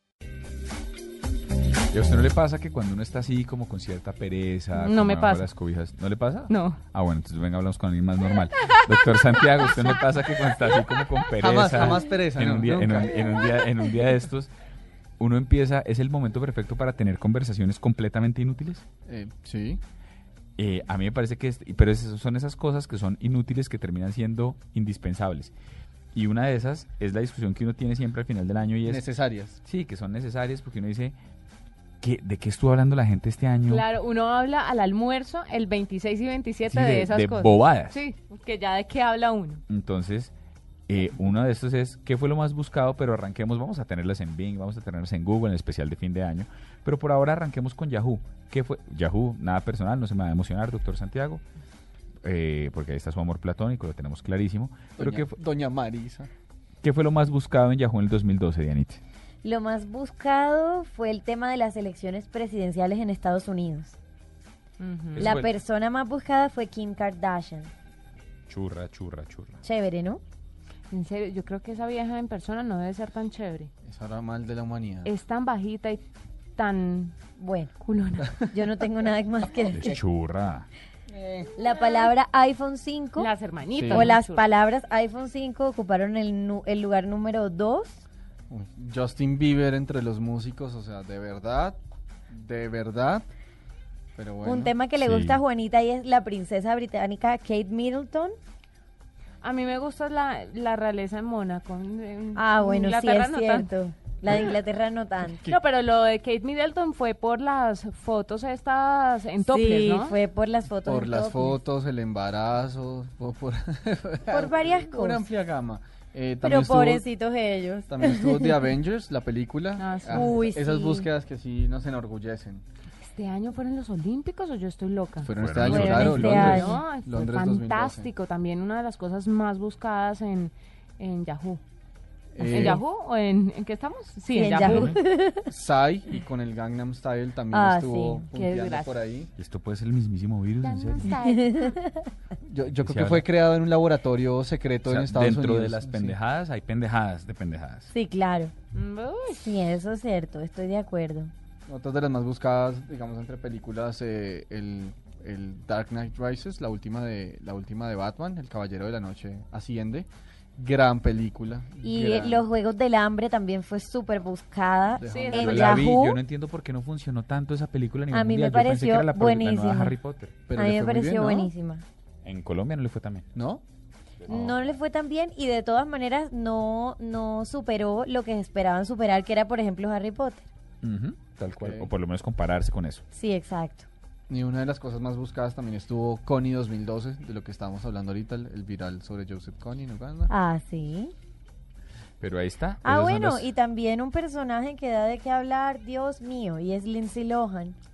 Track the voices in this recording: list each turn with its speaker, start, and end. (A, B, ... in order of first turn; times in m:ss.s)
0:01.9-0:14.5 A
0:04.7-0:05.5 B
0:06.5-0:06.8 B
0:08.6-0:10.0 B
0:10.6-0:11.2 B
0:11.4-0:13.3 C
0:15.2-0:18.8 A
0:19.0-0:19.8 C
0:20.6-0:25.5 A
0:26.1-0:29.0 A
0:28.8-0:29.6 C
0:29.6-0:31.2 A
0:32.0-0:33.8 A
0:33.7-0:39.6 B
0:36.7-0:38.0 A
0:39.7-0:40.3 A
0:40.9-0:51.4 A
0:52.2-0:55.4 A
0:55.0-0:56.3 C
0:56.8-0:59.0 A
0:59.4-1:04.0 D
1:04.8-1:05.4 B
1:05.2-1:05.5 A
1:05.2-1:07.7 D
1:08.5-1:09.6 A
1:09.6-1:10.2 D
1:10.9-1:13.7 B
1:13.8-1:15.1 C
1:15.0-1:16.0 B
1:16.6-1:17.2 B
1:17.4-1:17.7 D
1:17.8-1:18.3 B
1:18.4-1:20.0 D
1:19.7-1:20.7 A
1:21.2-1:21.5 C
1:21.6-1:23.3 D
1:23.2-1:24.5 B
1:23.7-1:24.1 C
1:23.9-1:28.0 D
1:28.5-1:31.8 C
1:32.3-1:33.2 C
1:34.2-1:34.7 C
1:34.4-1:38.3 D
1:35.0-1:35.4 A
1:39.4-1:43.7 B
1:42.4-1:45.5 D
1:45.4-1:50.2 B
1:49.4-1:51.6 D
1:50.8-1:57.0 C
1:54.3-1:55.3 D
1:56.4-1:58.7 D
1:57.9-2:02.6 C
1:59.8-2:00.4 B
2:00.1-2:01.1 D
2:03.0-2:05.3 B
2:05.2-2:08.1 C
2:05.4-2:06.6 A
2:05.6-2:06.9 D
2:06.1-2:11.6 B
2:12.3-2:12.8 C
2:12.4-2:15.0 B
2:14.3-2:15.5 D
2:14.6-2:15.0 A
2:15.5-2:19.3 C
2:17.5-2:18.3 D
2:18.3-2:19.0 B
2:19.4-2:21.1 A
2:20.6-2:21.8 B
2:21.0-2:22.1 D
2:22.4-2:26.2 C
2:22.8-2:23.2 A
2:24.8-2:27.9 A
2:27.9-2:28.5 D
2:28.7-2:29.6 B
2:29.3-2:31.3 D
2:31.7-2:42.5 C
2:41.8-2:46.2 D
2:44.9-2:45.9 C
2:45.0-2:45.7 B
2:45.3-2:50.4 A
2:48.1-2:50.0 D
2:50.5-2:51.5 C
2:50.5-2:51.8 D
2:52.2-2:53.3 A
2:53.3-2:53.6 C
2:54.2-2:54.7 A
2:54.3-3:00.4 D
3:00.8-3:03.0 A
3:01.5-3:01.9 C
3:03.1-3:03.9 D
3:04.3-3:10.3 C
3:10.3-3:11.1 D
3:12.2-3:13.5 A
3:12.8-3:17.8 D